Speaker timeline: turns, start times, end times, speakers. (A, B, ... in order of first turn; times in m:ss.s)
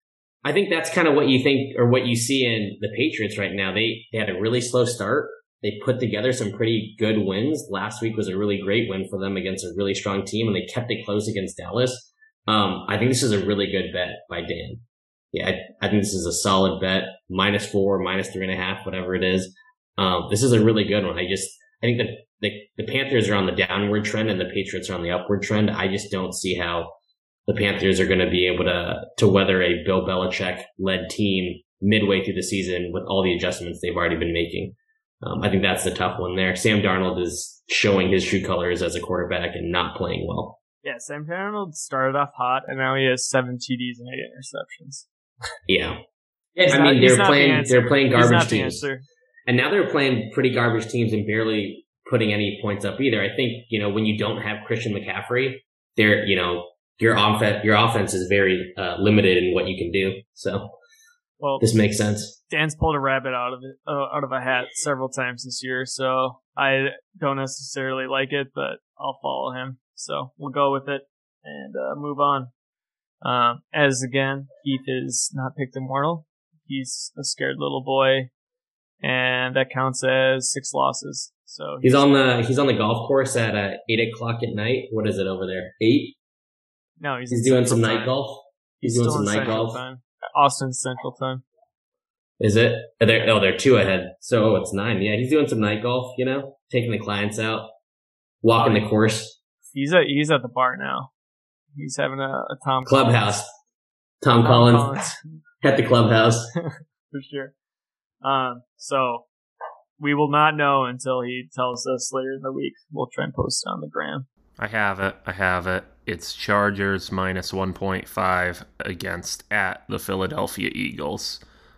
0:00.4-0:26.9 A
0:27.5-0:40.6 A
0:40.8-0:45.1 B
0:45.7-0:46.0 A
0:46.6-0:48.8 A
0:46.6-0:49.0 B
0:49.5-1:00.7 A
1:01.6-1:02.4 A
1:02.5-1:12.5 B
1:13.2-1:18.3 B
1:19.0-1:22.2 B
1:21.8-1:26.2 A
1:27.0-1:28.1 B
1:27.3-1:29.8 A
1:28.8-1:31.4 B
1:32.4-1:37.7 A
1:38.4-1:39.4 A
1:38.6-1:38.8 B
1:39.7-1:41.1 B
1:41.7-1:43.4 B
1:42.8-1:43.5 A
1:44.2-1:46.5 A
1:44.4-1:45.1 B
1:46.6-1:47.5 B
1:48.2-1:49.2 B
1:50.0-1:54.2 B
1:54.6-2:01.4 C